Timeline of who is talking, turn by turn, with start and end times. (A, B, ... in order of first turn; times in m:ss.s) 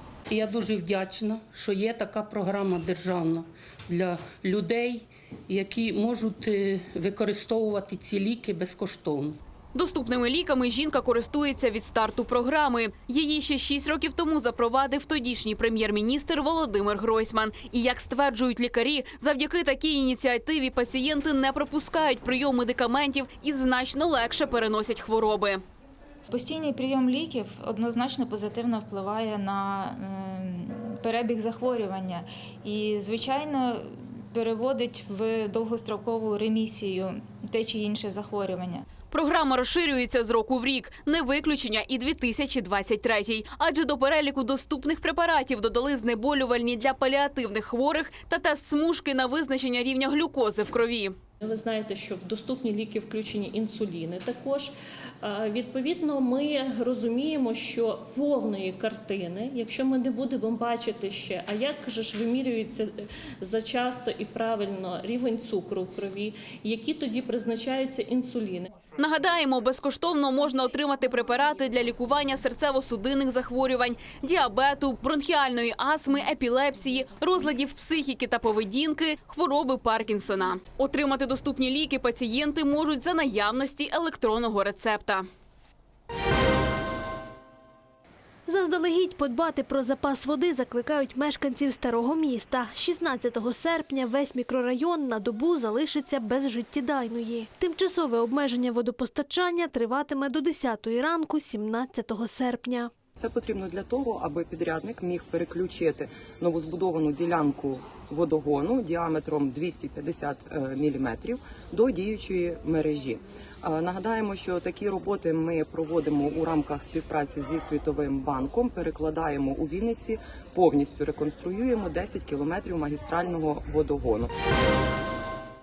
0:00.3-0:09.4 A
0:09.7-0:25.6 B
0:26.3-0:38.8 C
0:39.1-0:51.2 B
0:51.4-1:08.7 D
1:09.0-1:25.3 B
1:28.5-1:42.9 E
1:43.2-2:04.3 F